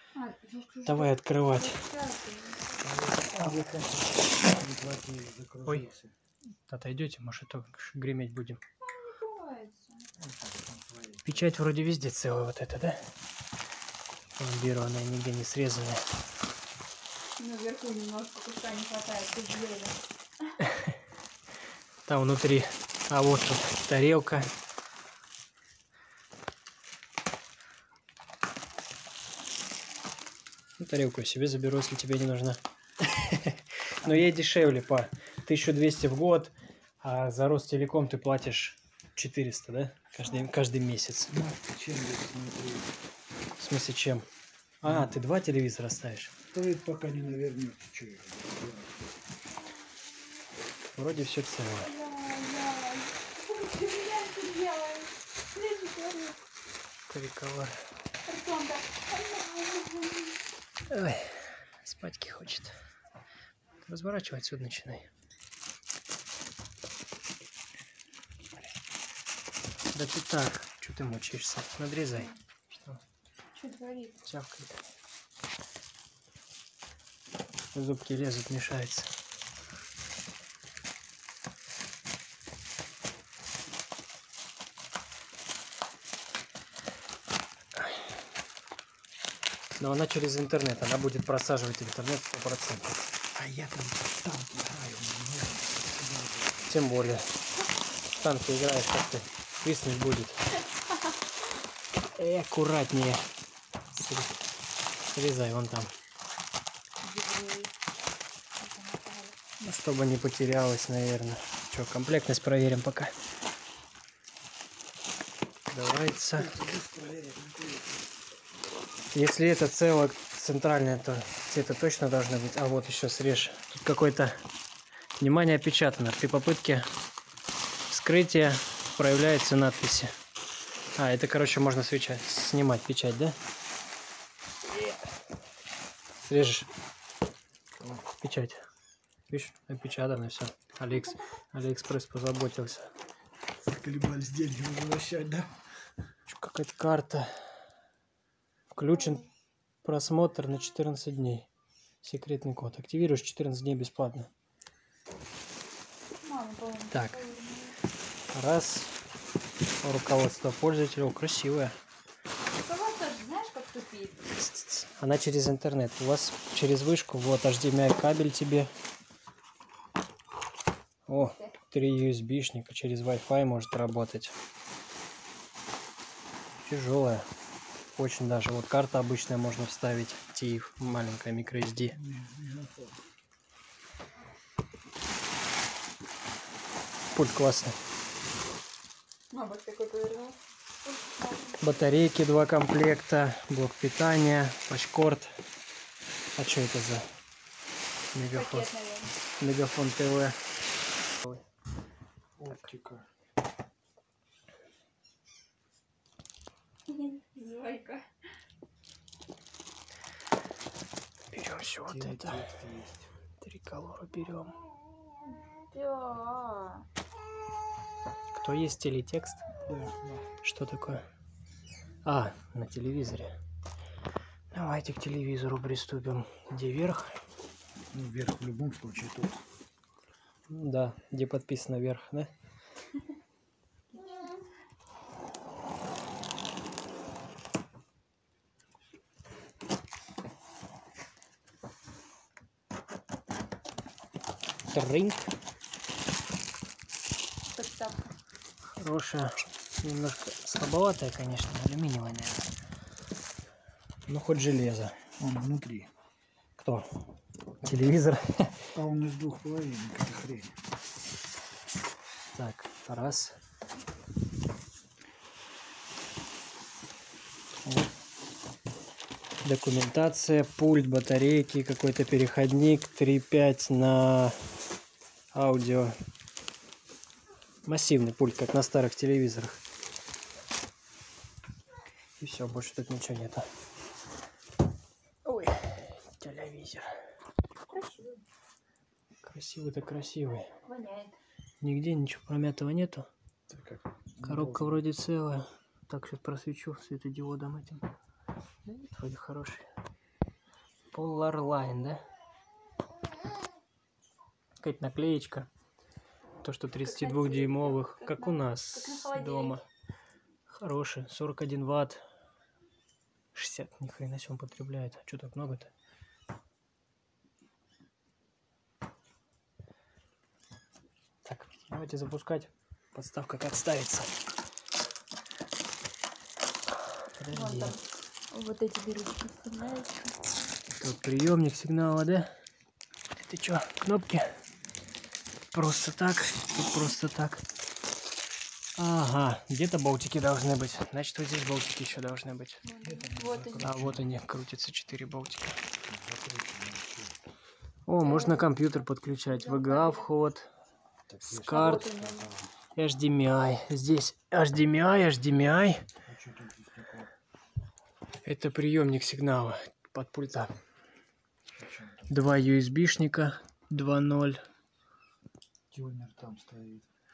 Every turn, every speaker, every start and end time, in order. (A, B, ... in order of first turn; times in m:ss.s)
0:00.1-0:02.8 A
0:00.9-0:01.8 B
0:02.8-0:06.1 C
0:06.7-0:08.6 B
0:08.9-0:10.1 A
0:10.2-0:11.5 C
0:11.2-0:13.1 B
0:14.4-0:16.1 B
0:17.4-0:20.0 A
0:20.7-0:20.9 B
0:22.1-0:24.5 B
0:30.8-0:41.4 B
0:41.3-0:42.9 C
0:43.6-0:44.2 B
0:44.8-0:46.3 B
0:44.8-0:45.2 C
0:46.5-0:49.0 C
0:50.9-0:51.9 B
0:51.8-0:56.4 A
0:57.1-0:57.8 B
0:58.2-1:00.4 A
1:00.9-1:02.8 B
1:03.8-1:05.1 B
1:09.9-1:13.0 B
1:13.6-1:14.2 A
1:14.2-1:14.8 B
1:17.7-1:19.1 B
1:27.8-1:28.0 B
1:29.8-1:33.0 B
1:33.3-1:36.7 C
1:36.7-1:37.3 B
1:38.2-1:40.4 B
1:42.2-1:43.3 B
1:43.9-1:44.4 B
1:45.1-1:45.9 B
1:47.0-1:47.7 A
1:48.6-1:49.4 A
1:49.6-1:53.1 B
1:55.7-1:56.6 B
1:56.3-1:57.9 C
1:59.1-2:04.4 B
2:05.2-2:06.9 B
2:07.9-2:10.1 B
2:11.0-2:13.4 B
2:14.7-2:15.1 B
2:16.2-2:16.7 B
2:17.8-2:18.0 C
2:18.2-2:18.6 B
2:19.3-2:22.9 B
2:23.7-2:25.6 C
2:26.3-2:27.4 B
2:28.7-2:29.2 B
2:29.8-2:31.5 B
2:32.0-2:34.3 B
2:36.2-2:37.8 A
2:36.9-2:37.2 B
2:38.3-2:39.0 B
2:39.8-2:41.8 B
2:42.5-2:44.3 A
2:44.4-2:48.7 B
2:51.1-2:54.4 B
2:51.1-2:51.5 A
2:56.6-2:57.3 B
2:58.0-3:02.0 B
3:01.9-3:03.0 C
3:07.1-3:07.8 B
3:09.3-3:11.8 A
3:11.6-3:15.4 B
3:16.4-3:17.0 B
3:18.1-3:18.7 B
3:18.3-3:19.2 A
3:19.4-3:20.4 B
3:21.2-3:21.4 B
3:22.4-3:23.1 C
3:26.9-3:28.1 A
3:31.3-3:32.5 B
3:31.8-3:33.1 C
3:33.4-3:34.6 B
3:35.7-3:36.9 A
3:38.3-3:39.4 B
3:39.6-3:40.3 C
3:40.4-3:41.0 B
3:42.0-3:43.4 B
3:44.5-3:47.2 B
3:47.9-3:49.4 C
3:50.5-3:52.3 B
4:04.7-4:05.3 B
4:07.5-4:08.1 A
4:08.8-4:12.5 B
4:14.1-4:15.0 B
4:15.2-4:15.9 C
4:16.6-4:16.9 B
4:17.6-4:18.7 B
4:18.8-4:20.6 C
4:22.3-4:23.4 B
4:29.4-4:34.4 B
4:35.3-4:36.0 B
4:37.6-4:39.6 B
4:42.2-4:43.5 B
4:45.2-4:46.9 B
4:47.7-4:48.1 A
4:49.2-4:50.5 B
4:50.6-4:51.2 A
4:51.6-4:53.1 B
4:53.5-4:54.8 C
4:54.2-4:57.8 B
4:58.6-4:59.7 B
5:00.9-5:02.0 B
5:04.6-5:05.5 B
5:06.4-5:09.7 B
5:06.8-5:09.6 A
5:10.5-5:12.0 B
5:13.3-5:15.7 B
5:21.2-5:24.1 B
5:27.2-5:27.8 B
5:27.3-5:30.2 A
5:30.7-5:32.3 B
5:33.2-5:34.3 B
5:35.5-5:37.4 B
5:38.8-5:42.6 B
5:42.6-5:43.8 A
5:42.8-5:44.1 C
5:43.6-5:45.6 B
5:45.9-5:47.2 C
5:47.9-5:50.5 B
5:48.0-5:48.7 A
5:49.2-5:50.1 A
5:51.1-5:52.6 C
5:51.3-5:51.9 B
5:51.5-5:52.3 A
5:52.8-5:55.8 B
5:56.0-5:57.1 C
5:58.2-6:00.5 B
6:01.6-6:02.2 C
6:02.1-6:04.4 B
6:05.7-6:06.9 C